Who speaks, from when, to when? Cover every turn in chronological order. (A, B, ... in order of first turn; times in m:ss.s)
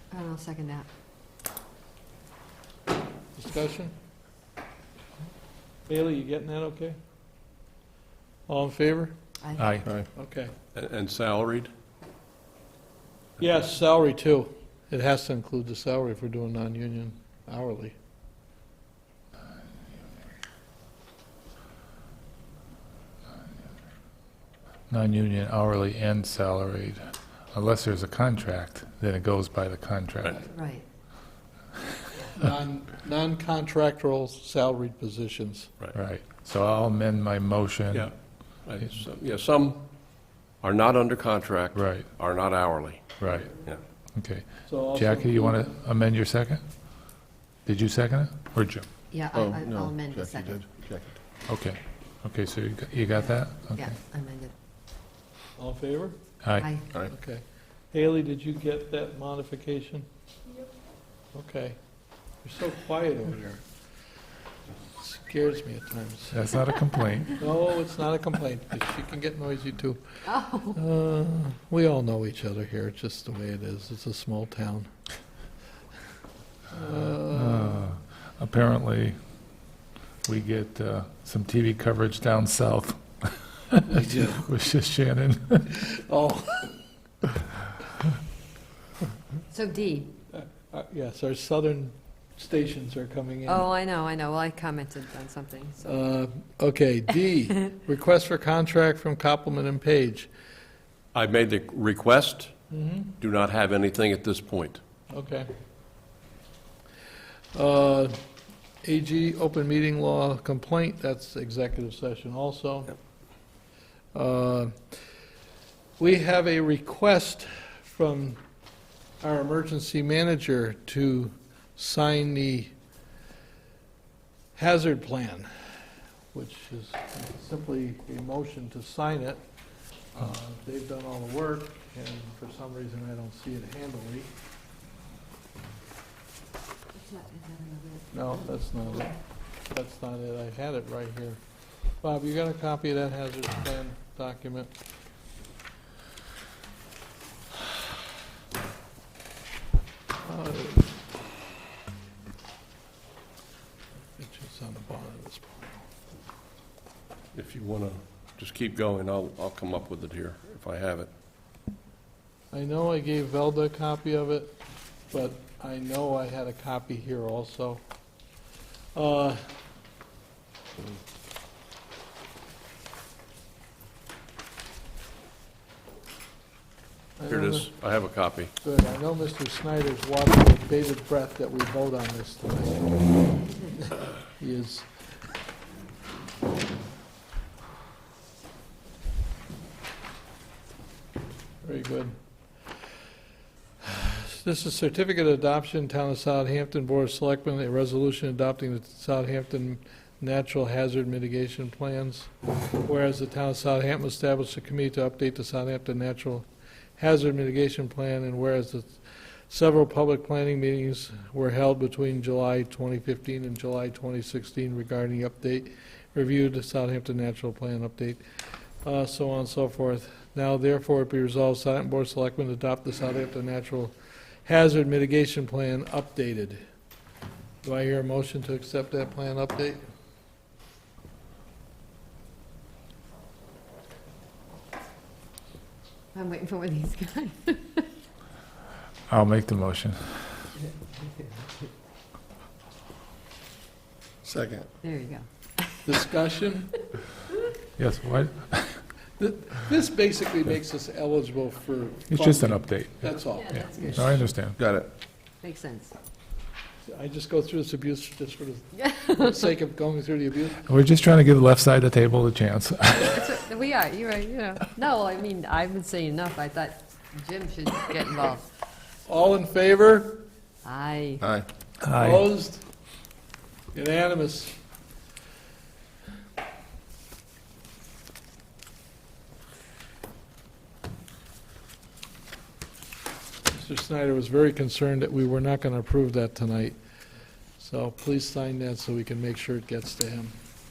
0:00.1-0:00.9 A
0:03.4-0:03.9 B
0:05.9-0:07.0 B
0:08.5-0:09.1 B
0:09.4-0:09.7 A
0:09.6-0:09.9 C
0:10.1-0:10.5 B
0:10.7-0:11.7 D
0:13.4-0:18.0 B
0:24.9-0:30.5 C
0:30.5-0:30.8 A
0:32.3-0:35.7 B
0:35.9-0:38.1 C
0:37.9-0:39.9 D
0:40.6-0:43.8 D
0:41.7-0:42.1 C
0:43.2-0:43.5 C
0:44.1-0:46.6 C
0:44.7-0:45.8 B
0:47.7-0:48.8 C
0:49.1-0:50.6 A
0:49.3-0:51.2 E
0:51.5-0:53.9 C
0:53.7-0:54.5 A
0:55.6-0:56.2 B
0:56.4-0:56.7 C
0:56.6-0:56.9 A
0:57.1-1:00.0 B
1:01.3-1:01.8 B
1:02.4-1:03.6 B
1:05.0-1:06.5 B
1:06.3-1:07.4 C
1:07.4-1:14.9 B
1:10.2-1:10.8 A
1:16.7-1:17.9 B
1:17.3-1:19.2 C
1:20.2-1:25.8 C
1:23.9-1:24.4 B
1:25.8-1:26.8 B
1:29.5-1:30.1 A
1:30.3-1:33.7 B
1:33.4-1:35.9 A
1:35.8-1:40.3 B
1:41.1-1:42.5 D
1:42.7-1:43.2 B
1:43.2-1:44.8 D
1:45.1-1:45.5 B
1:47.5-1:48.2 B
1:48.8-1:53.0 B
1:54.1-1:54.8 B
1:56.0-1:58.4 B
1:59.2-2:02.7 B
2:04.6-2:05.5 B
2:06.3-2:09.4 B
2:10.1-2:14.3 B
2:16.9-2:18.2 A
2:18.1-2:19.2 B
2:19.7-2:21.4 B
2:22.0-2:24.7 B
2:30.2-2:31.0 B
2:34.2-2:35.9 B
2:37.3-2:41.1 D
2:42.5-2:44.5 B
2:45.1-2:47.8 B
2:49.0-2:49.4 B
2:57.2-2:57.7 B
2:57.3-2:58.5 D
2:58.6-3:03.1 B
3:03.7-3:04.9 B
3:11.6-3:12.2 B
3:13.8-3:22.3 B
3:22.8-3:26.5 B
3:27.0-3:38.2 B
3:38.8-3:46.6 B
3:47.6-3:49.8 B
3:56.1-3:57.9 A
3:59.1-4:00.2 C
4:01.0-4:01.6 A
4:04.2-4:04.7 E
4:04.8-4:05.8 A
4:05.8-4:06.8 B
4:07.8-4:08.8 C
4:09.2-4:13.6 B
4:12.1-4:14.6 C
4:13.3-4:14.2 A
4:14.6-4:14.9 E
4:15.4-4:15.9 A
4:16.9-4:20.6 B
4:18.8-4:19.4 A
4:20.6-4:23.2 C
4:23.0-4:28.5 A
4:29.1-4:30.2 B
4:30.6-4:31.2 A
4:31.2-4:31.5 E
4:31.8-4:32.3 C
4:31.9-4:32.6 B
4:33.7-4:34.5 B
4:43.5-4:46.8 B
4:47.6-4:50.3 B